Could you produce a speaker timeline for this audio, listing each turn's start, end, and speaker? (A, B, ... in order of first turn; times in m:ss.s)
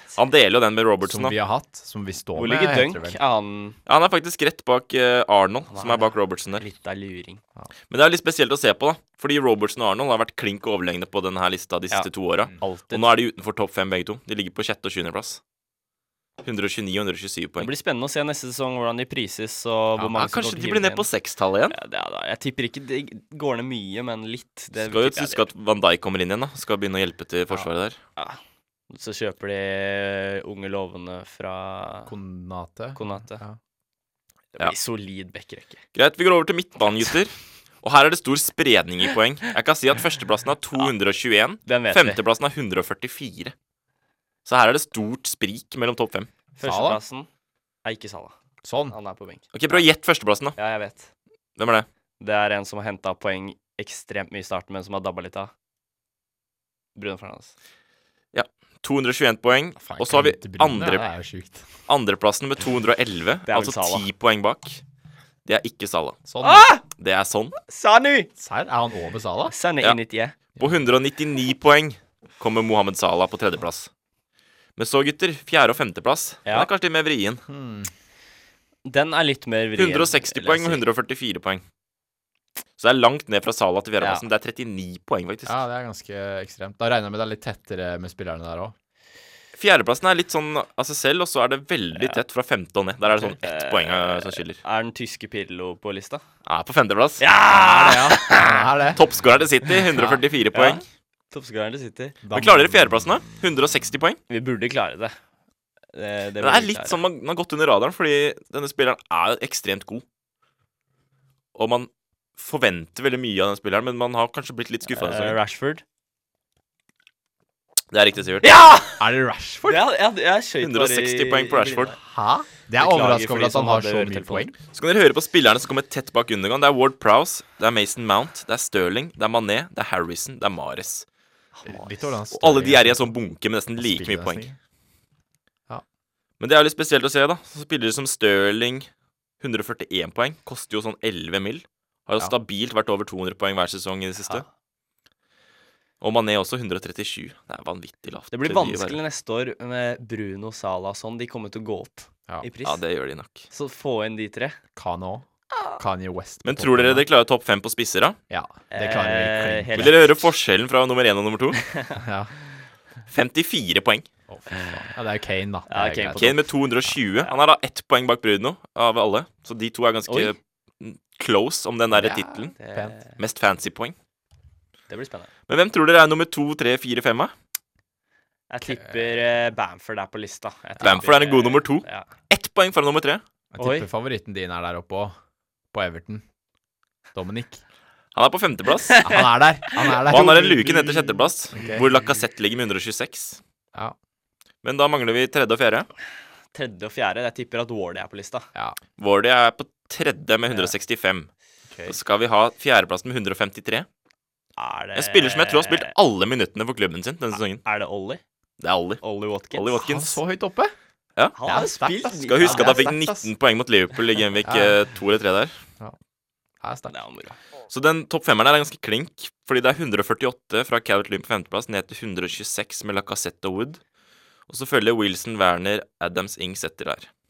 0:00.2-0:01.4 A
0:01.0-0:03.2 B
0:02.4-0:03.8 C
0:03.9-0:06.6 A
0:05.7-0:07.4 C
0:07.9-0:15.4 A
0:11.9-0:13.1 C
0:16.4-0:17.7 A
0:17.6-0:21.0 C
0:20.0-0:21.8 A
0:21.7-0:25.4 C
0:24.8-0:28.0 A
0:28.9-0:32.1 C
0:32.1-0:33.6 B
0:33.0-0:33.4 C
0:34.5-0:35.8 C
0:35.9-0:43.5 A
0:41.6-0:42.2 C
0:44.4-0:46.3 A
0:46.6-0:47.3 C
0:46.6-0:47.0 B
0:47.8-0:48.3 C
0:48.6-0:49.0 B
0:48.9-0:49.8 C
0:49.5-0:50.6 A
0:50.6-0:51.1 C
0:51.6-0:51.8 A
0:52.2-0:55.5 C
0:57.0-0:57.5 C
0:58.3-1:01.0 A
0:59.8-1:01.7 B
1:01.9-1:04.8 A
1:03.5-1:04.0 C
1:05.4-1:06.3 A
1:06.3-1:06.7 B
1:06.4-1:06.8 C
1:06.9-1:07.6 A
1:07.7-1:08.3 C
1:08.4-1:09.5 B
1:09.5-1:10.4 C
1:10.6-1:13.9 A
1:14.8-1:17.4 A
1:17.5-1:17.9 B
1:18.8-1:20.8 C
1:19.8-1:21.6 A
1:22.8-1:25.6 A
1:24.0-1:24.2 C
1:25.4-1:28.7 B
1:29.6-1:34.6 A
1:33.4-1:36.2 C
1:36.4-1:37.2 A
1:37.2-1:38.6 C
1:37.5-1:39.0 B
1:39.0-1:40.8 A
1:39.7-1:42.2 C
1:42.2-1:43.0 B
1:42.3-1:44.2 A
1:44.3-1:45.1 C
1:45.9-1:47.0 C
1:46.4-1:50.0 A
1:51.5-1:55.4 A
1:54.9-1:55.8 C
1:57.9-1:58.6 A
1:58.4-1:59.0 C
1:59.0-1:59.8 B
1:59.7-2:02.0 C
2:00.6-2:01.9 A
2:02.0-2:04.5 B
2:02.8-2:04.5 C
2:04.7-2:11.0 A
2:11.6-2:12.1 C
2:11.6-2:13.1 B
2:12.3-2:14.4 A
2:13.8-2:14.6 B
2:16.4-2:18.9 A
2:19.4-2:24.4 A
2:26.0-2:29.0 A
2:28.3-2:32.8 C
2:32.6-2:33.4 A
2:33.5-2:34.6 C
2:34.8-2:37.0 B
2:36.4-2:38.2 A
2:38.3-2:40.0 B
2:38.7-2:40.0 C
2:39.8-2:41.6 A
2:41.7-2:42.0 C
2:42.0-2:42.3 B
2:43.1-2:44.0 A
2:44.3-2:46.4 B
2:44.5-2:44.8 C
2:45.7-2:46.4 C
2:46.2-2:52.6 A
2:50.1-2:50.3 C
2:51.9-2:53.0 B
2:52.6-2:53.1 C
2:53.2-2:53.9 A
2:54.9-2:55.3 C
2:55.5-2:57.3 A
2:58.5-3:02.1 C
3:00.8-3:03.2 A
3:03.5-3:05.1 B
3:03.6-3:03.9 C
3:05.7-3:06.2 B
3:07.1-3:07.6 B
3:08.1-3:09.1 A
3:09.0-3:11.8 B
3:10.0-3:13.4 A
3:14.6-3:15.9 A
3:16.5-3:18.5 C
3:19.0-3:21.3 A
3:21.9-3:23.9 A
3:24.6-3:25.9 C
3:25.0-3:27.6 A
3:27.6-3:28.2 C
3:28.6-3:30.2 A
3:29.0-3:29.8 C
3:29.8-3:30.7 B
3:31.3-3:32.9 C
3:31.4-3:33.3 B
3:32.2-3:35.5 A
3:34.4-3:34.8 B
3:36.6-3:37.0 B
3:36.9-3:37.4 C
3:37.7-3:43.8 A
3:44.5-3:47.1 A